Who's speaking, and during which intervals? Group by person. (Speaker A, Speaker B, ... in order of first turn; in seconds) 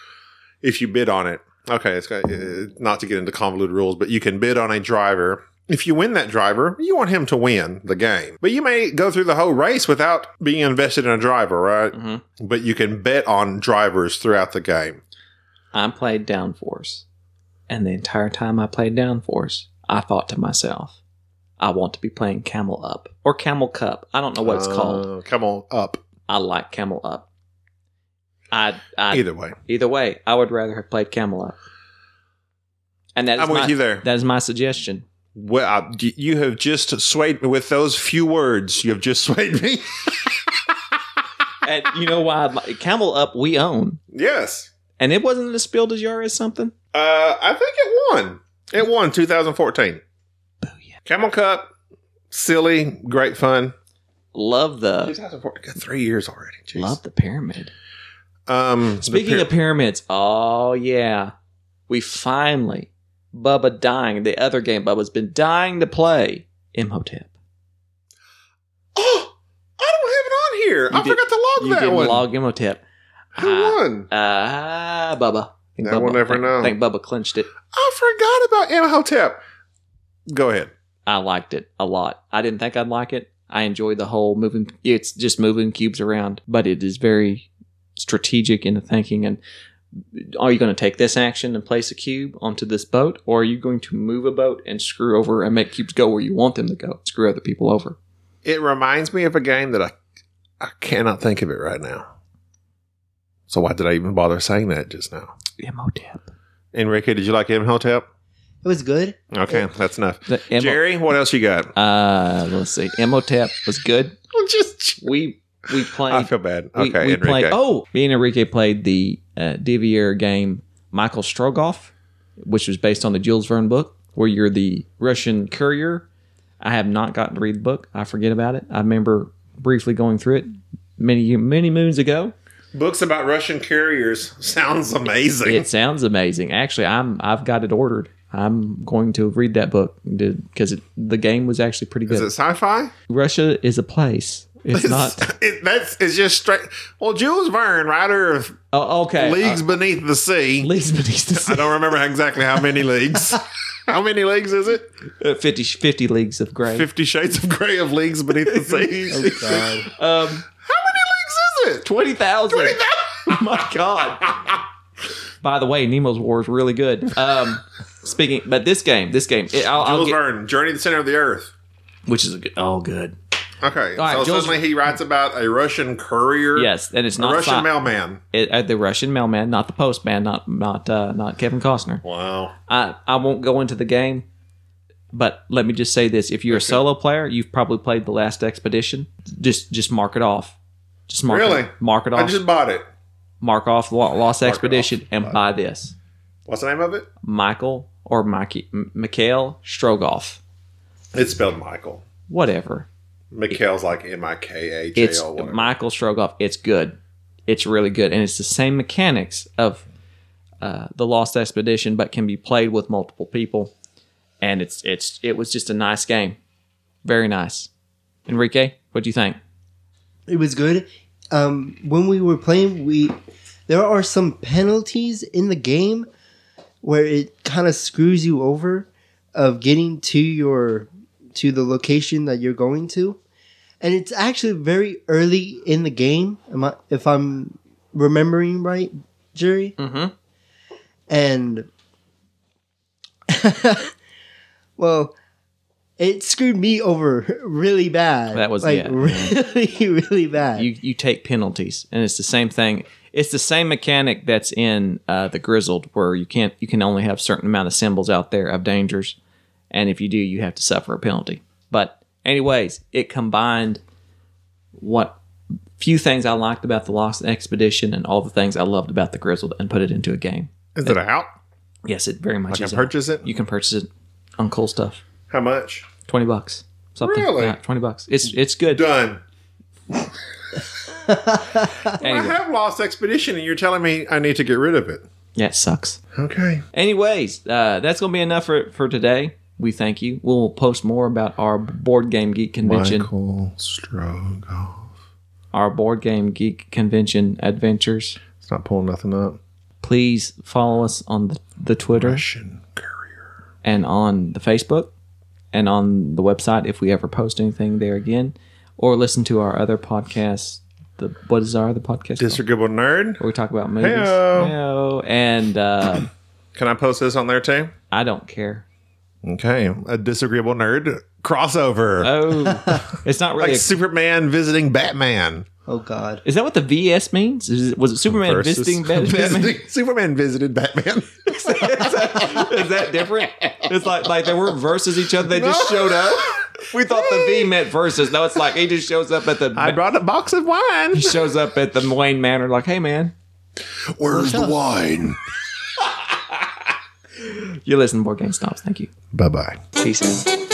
Speaker A: 0.6-15.0, 24.4-26.0, 29.1-29.6, 33.4-34.0, 35.3-40.8, 44.1-44.7, 46.9-50.0, 51.0-51.7, 52.3-53.7, 55.0-57.0, 58.5-59.5, 68.9-72.2, 73.3-74.1, 75.8-76.7, 77.7-79.4, 80.3-80.7, 98.4-99.9, 100.6-102.1, 103.5-105.3, 106.7-108.0, 109.3-111.7, 114.3-115.1, 115.9-117.6, 132.7-135.7, 142.1-142.9, 144.7-148.6, 149.1-150.7, 151.4-154.9, 156.7-159.9, 160.6-161.9, 162.5-163.4, 169.7-171.5, 173.6-178.2, 182.0-182.5, 186.5-186.8, 191.3-192.8, 194.4-195.4, 196.5-197.1, 201.1-202.0, 203.3-205.7, 270.7-271.3, 272.5-273.2, 275.3-275.9, 277.0-277.6, 278.7-279.2, 281.9-285.0, 286.1-286.6, 292.6-294.9, 298.4-299.4, 301.9-303.1, 312.2-313.2, 313.8-314.6, 316.5-317.7, 319.2-322.9, 323.4-325.5, 328.1-333.7, 335.2-337.5, 339.5-341.2, 343.9-345.2, 349.1-349.6
Speaker B: 11.9-12.2, 15.7-17.0, 17.7-21.0, 21.6-25.1, 26.3-27.2, 28.5-31.6, 33.1-35.0, 41.6-44.0, 45.0-46.7, 50.6-51.0, 54.3-55.1, 56.7-57.7, 59.0-61.3, 61.9-67.3, 70.9-72.8, 73.3-77.5, 81.0-89.4, 90.0-98.0, 105.6-106.3, 110.3-110.8, 111.7-114.2, 115.0-126.0, 126.6-132.3, 135.4-142.3, 143.1-145.2, 148.7-149.6, 150.6-151.8, 155.2-156.9, 158.4-160.4, 161.8-164.5, 165.4-170.2, 172.1-173.2, 174.0-174.6, 176.5-177.7, 178.3-182.0, 182.7-184.2, 185.1-190.6, 191.1-192.4, 193.4-195.9, 197.2-200.4, 202.3-202.9, 204.9-209.8, 210.6-213.7, 214.4-216.4, 217.0-217.7, 218.3-219.4, 239.8-240.1, 248.3-249.3, 250.6-259.2, 259.7-263.8, 264.8-265.2, 265.8-271.0, 271.9-273.9, 274.4-275.0, 276.1-278.8, 282.0-282.4, 285.4-286.0, 286.7-293.1, 295.5-298.2, 299.8-302.2, 303.6-304.9, 305.5-312.4, 313.2-316.1, 317.9-318.6, 322.0-323.7, 326.2-329.6, 331.3-339.8, 340.9-343.1, 347.2-348.9, 349.8-350.3
Speaker C: 108.6-109.6, 159.1-159.9, 220.3-223.1, 223.7-226.1, 226.8-233.2, 233.8-239.8, 241.1-241.7, 243.3-243.9, 244.8-245.1, 246.0-250.7, 281.1-281.7, 325.7-326.2, 344.1-344.5